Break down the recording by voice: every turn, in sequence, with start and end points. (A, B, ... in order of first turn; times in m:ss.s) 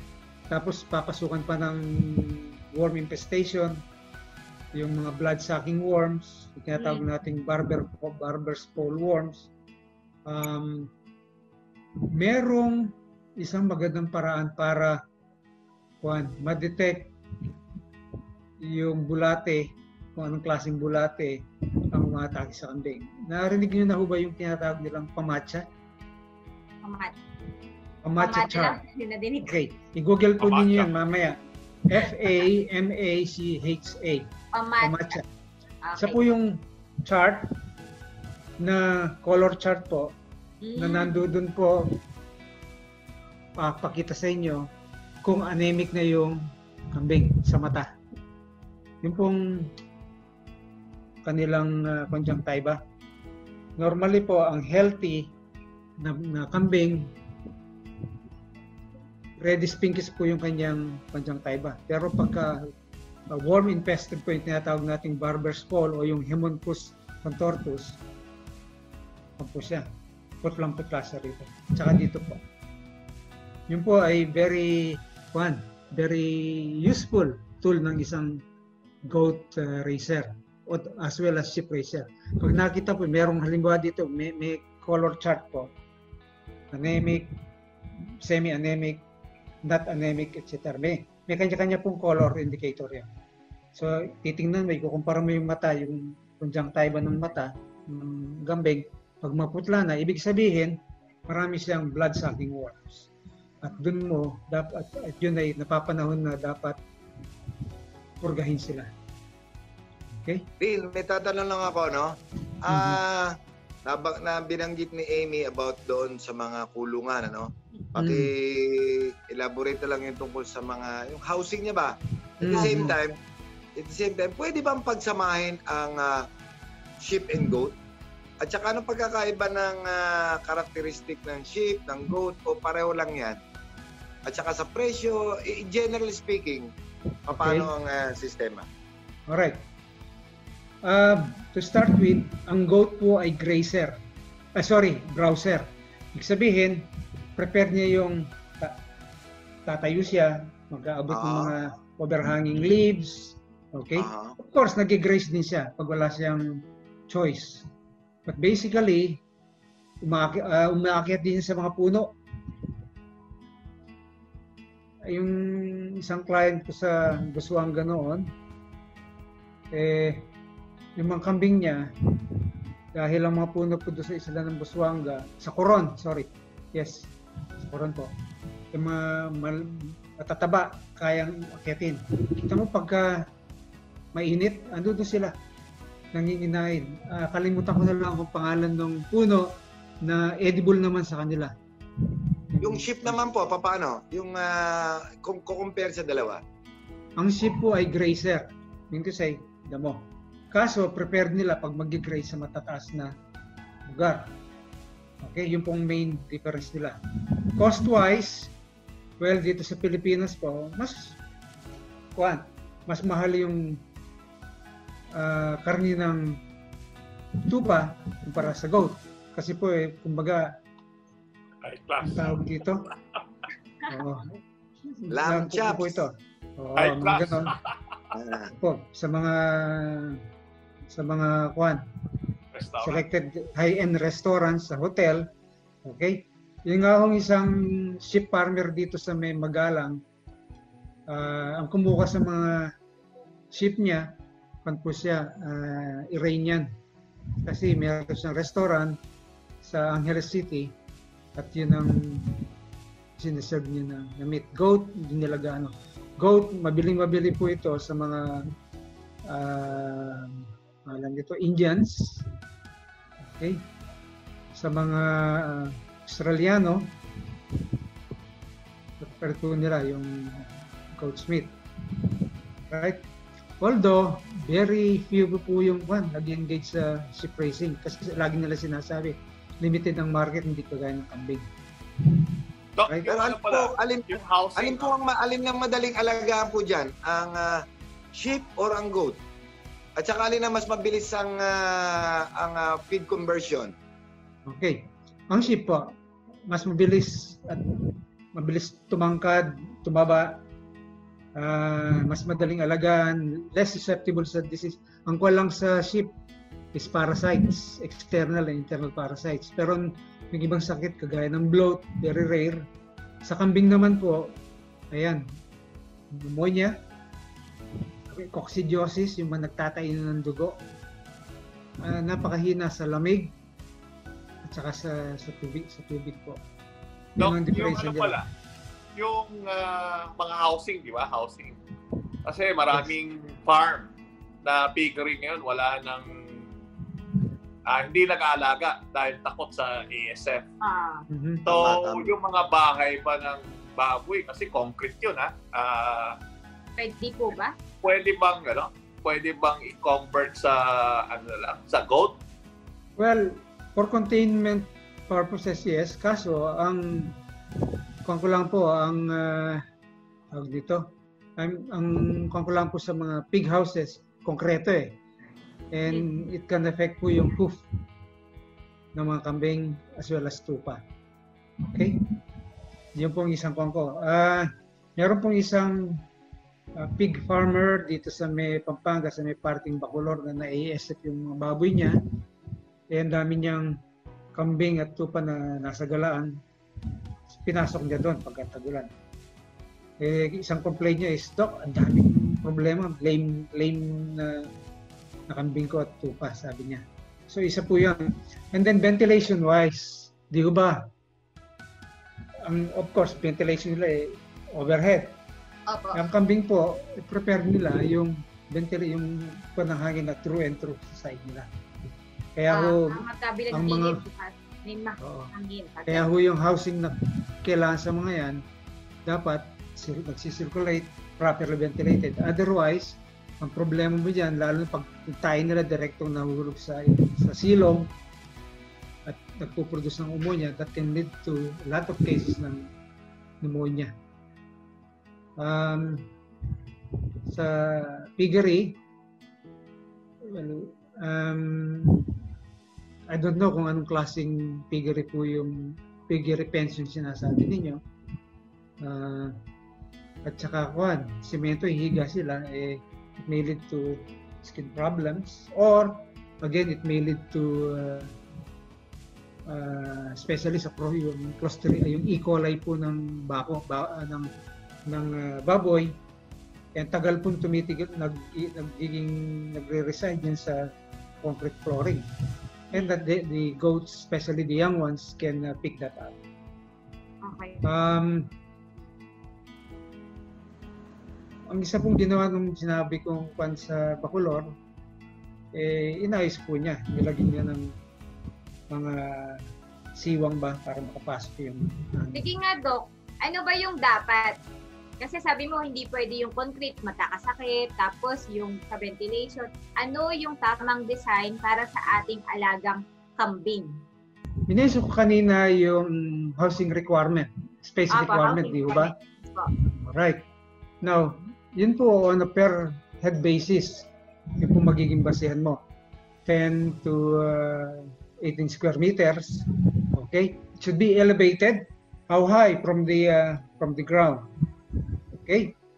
0:00.5-0:03.8 A
0:04.8-0:09.5 A
0:06.8-0:07.1 B
0:10.3-0:10.9 A
0:12.2-0:15.0 A
0:16.0-0:17.1 A
0:18.6-0:25.6 A
0:26.8-0:27.1 B
0:28.0-0:28.8 A
0:28.2-0:29.5 B
0:29.4-0:34.3 A
0:30.4-0:30.9 C
0:34.6-0:35.2 B
0:34.8-0:35.3 A
0:35.8-0:36.2 B
0:36.0-0:37.6 A
0:38.6-0:40.2 A
0:40.6-0:41.3 B
0:40.8-0:42.0 A
0:43.6-0:44.7 A
0:45.2-0:46.4 A
0:46.9-0:47.9 A
0:49.0-0:49.7 A
0:51.2-0:52.8 A
0:53.8-0:55.3 A
0:56.0-0:57.1 A
0:59.4-1:02.7 A
1:03.3-1:08.0 A
1:09.4-1:09.9 A
1:10.4-1:12.4 A
1:13.7-1:18.4 A
1:19.1-1:25.7 A
1:26.7-1:27.4 A
1:28.0-1:29.0 A
1:29.6-1:33.1 A
1:33.8-1:43.1 A
1:43.6-1:46.8 A
1:48.2-1:48.9 A
1:50.1-1:50.5 A
1:50.6-2:03.2 D
1:52.7-1:53.0 A
1:58.0-1:58.3 A
2:02.4-2:03.0 A
2:03.8-2:06.3 D
2:07.0-2:07.7 D
2:08.4-2:13.4 D
2:14.3-2:16.7 D
2:17.3-2:18.7 D
2:17.3-2:17.7 A
2:19.3-2:19.6 A
2:20.8-2:24.0 A
2:24.6-2:28.8 A
2:29.7-2:37.7 A
2:31.1-2:31.5 D
2:34.0-2:34.4 D
2:38.3-2:39.2 A
2:40.0-2:42.1 A
2:45.1-2:48.2 A
2:49.7-2:50.3 A
2:51.0-2:58.1 A
2:58.7-3:03.2 A
3:04.2-3:05.3 A
3:06.1-3:13.2 A
3:12.6-3:16.4 D
3:17.2-3:23.1 A
3:23.9-3:24.3 A
3:25.2-3:27.0 A
3:27.5-3:28.5 A
3:29.2-3:31.2 A
3:32.2-3:33.8 A
3:35.1-3:36.4 A
3:37.4-3:40.5 A
3:41.6-3:43.0 C
3:42.0-3:42.9 A
3:43.9-3:44.2 A
3:44.8-3:47.6 A
3:45.1-3:46.0 D
3:46.8-3:47.8 C
3:48.1-3:48.5 D
3:48.5-3:50.2 A
3:50.9-3:55.3 A
3:52.5-3:53.0 C
3:55.8-4:00.0 A
4:01.1-4:02.7 A
4:03.5-4:04.1 A
4:04.6-4:06.7 A
4:07.4-4:09.0 A
4:09.6-4:10.8 A
4:11.4-4:12.5 A
4:13.2-4:18.4 A
4:19.3-4:22.2 A
4:23.2-4:23.6 A
4:24.6-4:26.9 A
4:29.0-4:33.0 A
4:33.6-4:41.5 A
4:42.0-4:42.3 A
4:42.8-4:44.9 C
4:43.1-4:47.6 D
4:48.2-4:49.2 D
4:50.0-4:53.7 D
4:54.5-4:55.9 A
4:56.5-5:00.4 A
5:01.4-5:06.1 A
5:06.7-5:12.6 A
5:13.2-5:14.4 A
5:14.9-5:15.2 A
5:16.1-5:16.8 A
5:18.1-5:20.6 A
5:21.8-5:23.4 A
5:24.4-5:26.4 A
5:27.2-5:28.2 A
5:27.2-5:28.3 C
5:29.0-5:31.6 C
5:32.2-5:33.9 C
5:34.4-5:36.4 C
5:37.7-5:40.5 C
5:40.6-5:41.1 B
5:41.1-5:41.5 A
5:41.4-5:46.2 C
5:41.5-5:42.2 D
5:46.8-5:47.5 B
5:47.8-5:52.2 C
5:53.0-5:57.2 A
5:58.0-5:59.6 A
6:00.3-6:00.8 A
6:01.4-6:05.0 A
6:05.7-6:07.6 A
6:09.0-6:10.8 A
6:11.7-6:12.2 A
6:13.0-6:16.0 A
6:16.8-6:22.0 A
6:22.9-6:23.8 A
6:24.4-6:26.4 A
6:27.3-6:28.9 A
6:30.0-6:34.5 A
6:35.3-6:40.8 A
6:42.4-6:45.2 A
6:45.7-6:46.0 B
6:45.9-6:51.5 A
6:52.4-6:54.0 A
6:52.5-6:56.1 B
6:55.0-6:55.3 A
6:55.9-6:58.4 A
6:59.1-7:07.9 A
7:09.1-7:12.7 A
7:13.4-7:13.9 A
7:15.4-7:18.8 A
7:20.2-7:22.2 A
7:23.1-7:27.8 A
7:28.8-7:29.4 A
7:30.2-7:38.1 A
7:39.5-7:44.3 A
7:44.9-7:46.0 A
7:46.8-7:50.7 A
7:51.2-7:52.1 A
7:52.7-7:56.2 A
7:57.2-7:57.7 B
7:57.6-7:58.3 A
8:01.5-8:04.5 A
8:05.5-8:07.7 A
8:08.7-8:12.2 A
8:12.1-8:14.4 B
8:15.0-8:23.8 B
8:24.5-8:28.9 A
8:27.9-8:29.5 B
8:29.7-8:30.2 A
8:30.8-8:35.6 A
8:36.3-8:44.2 A
8:45.2-8:45.5 A